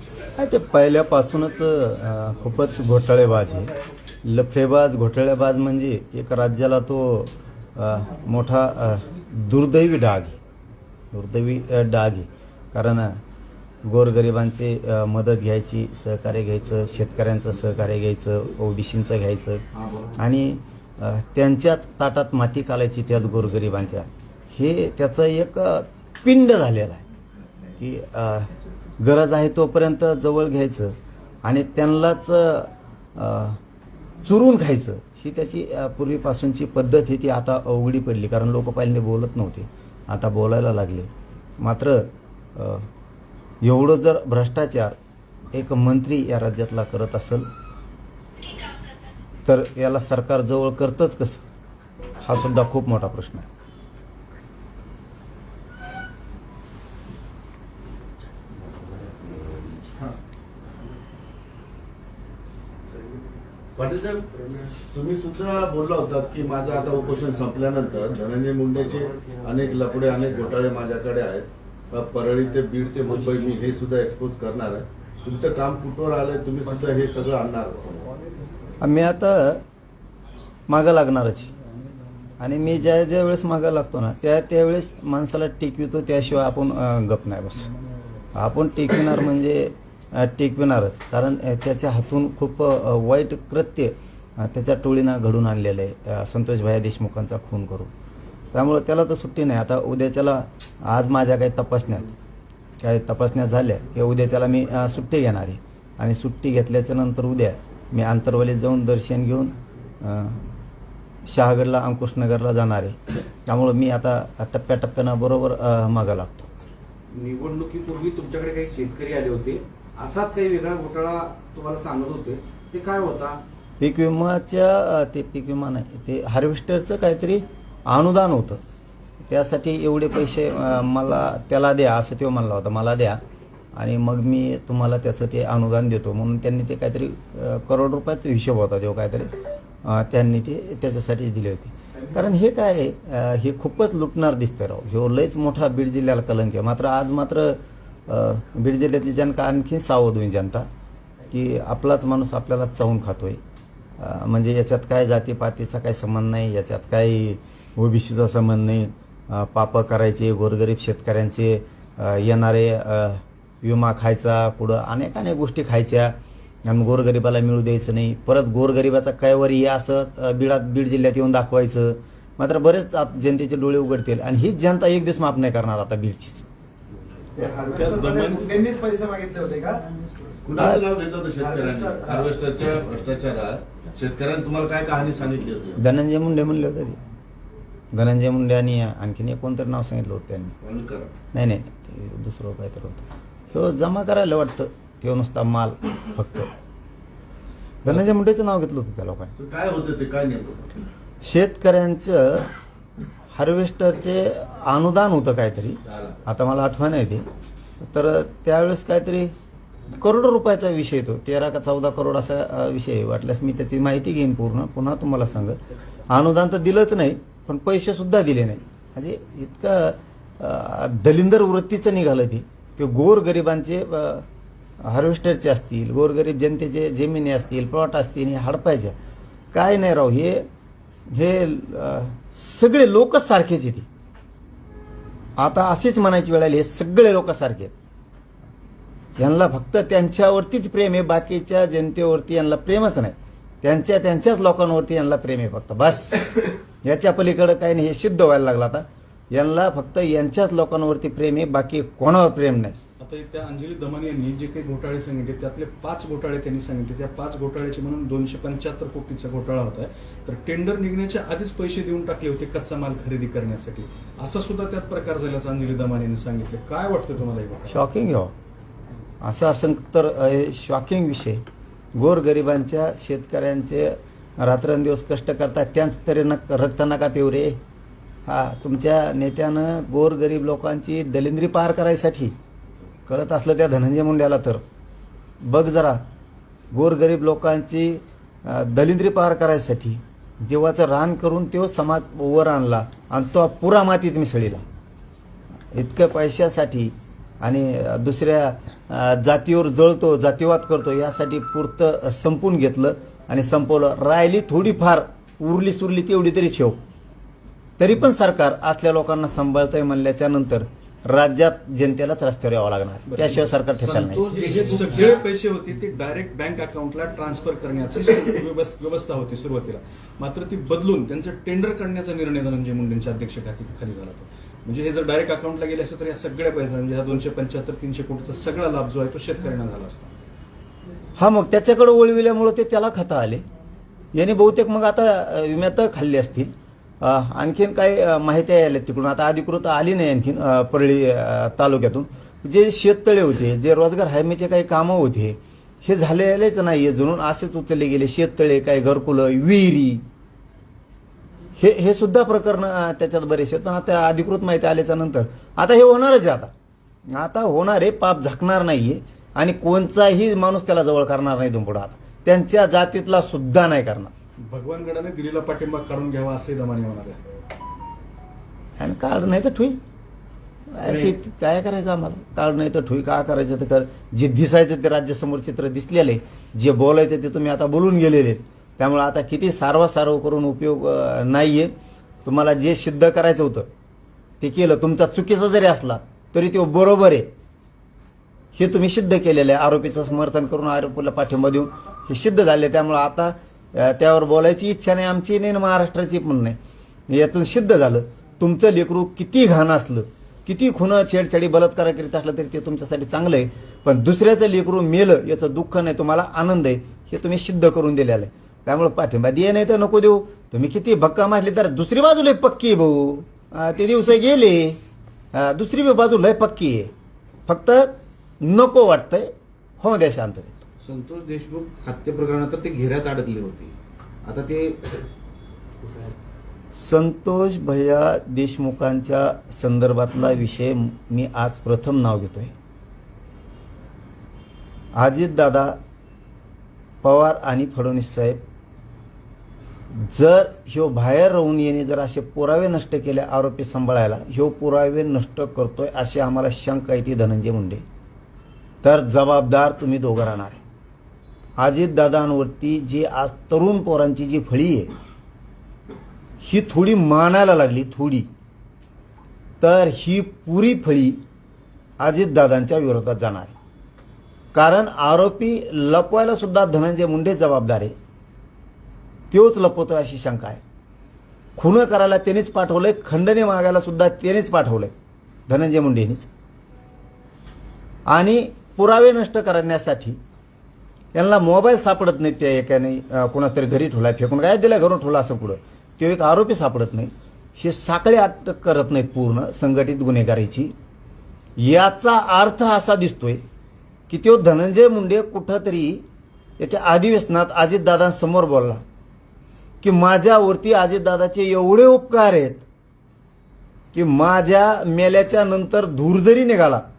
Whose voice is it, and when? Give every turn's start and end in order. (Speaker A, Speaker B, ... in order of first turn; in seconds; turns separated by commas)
Speaker A: 0.4-3.7, Speaker A: 4.2-10.4, Speaker A: 11.1-13.2, Speaker A: 13.8-19.6, Speaker B: 19.8-20.2, Speaker A: 20.2-27.0, Speaker A: 27.8-33.6, Speaker A: 34.2-42.9, Speaker A: 43.6-45.0, Speaker A: 45.5-47.5, Speaker A: 49.5-51.4, Speaker A: 52.2-53.5, Speaker B: 63.8-78.1, Speaker A: 78.8-79.6, Speaker A: 80.7-81.5, Speaker A: 82.4-87.7, Speaker A: 88.3-97.9, Speaker A: 98.5-102.1, Speaker A: 102.8-110.4, Speaker A: 111.2-116.5, Speaker C: 117.1-123.4, Speaker A: 123.8-128.6, Speaker A: 129.2-133.2, Speaker A: 133.8-139.3, Speaker A: 139.8-150.7, Speaker A: 151.3-153.4, Speaker A: 154.0-176.5, Speaker D: 177.3-179.9, Speaker B: 177.8-178.6, Speaker B: 180.4-185.8, Speaker A: 180.6-180.8, Speaker D: 181.4-182.3, Speaker A: 185.8-187.0, Speaker A: 187.9-190.5, Speaker B: 190.6-191.1, Speaker A: 191.3-196.5, Speaker A: 197.8-199.3, Speaker B: 199.4-200.8, Speaker A: 201.2-202.5, Speaker A: 203.3-207.2, Speaker B: 205.8-206.2, Speaker A: 207.8-209.3, Speaker A: 210.0-215.6, Speaker A: 216.1-224.2, Speaker A: 224.8-228.9, Speaker A: 229.5-230.4, Speaker A: 231.1-233.9, Speaker A: 235.4-237.7, Speaker A: 239.2-252.8, Speaker E: 253.0-267.8, Speaker A: 267.7-268.3, Speaker A: 269.2-271.4, Speaker A: 271.9-277.6, Speaker A: 278.3-282.3, Speaker A: 283.1-284.6, Speaker A: 285.4-286.0, Speaker A: 286.7-294.6, Speaker A: 295.7-306.8, Speaker A: 307.8-314.2, Speaker E: 313.1-313.5, Speaker C: 313.8-315.2, Speaker E: 314.3-330.1, Speaker A: 331.2-333.4, Speaker A: 334.1-336.5, Speaker A: 337.0-350.0, Speaker A: 351.6-356.5, Speaker A: 357.1-364.1, Speaker E: 364.4-367.2, Speaker A: 368.8-369.8, Speaker A: 370.7-381.7, Speaker C: 370.8-371.1, Speaker A: 382.2-383.7, Speaker A: 384.4-387.3, Speaker A: 388.6-396.6, Speaker A: 397.1-414.8, Speaker A: 415.3-416.9, Speaker A: 417.5-420.6, Speaker C: 420.8-423.7, Speaker C: 424.2-424.9, Speaker A: 426.7-432.5, Speaker A: 434.9-435.8, Speaker A: 437.0-438.4, Speaker A: 439.9-447.8, Speaker A: 448.8-450.6, Speaker A: 451.6-454.9, Speaker A: 456.4-458.3, Speaker A: 459.6-461.2, Speaker A: 462.0-463.5, Speaker A: 464.5-467.9, Speaker A: 469.3-470.6, Speaker A: 471.6-474.9, Speaker A: 475.5-476.3, Speaker A: 478.1-480.2, Speaker A: 481.1-490.7, Speaker A: 491.6-493.4, Speaker A: 494.1-496.0, Speaker A: 496.6-498.8, Speaker A: 499.8-502.6, Speaker A: 503.9-506.8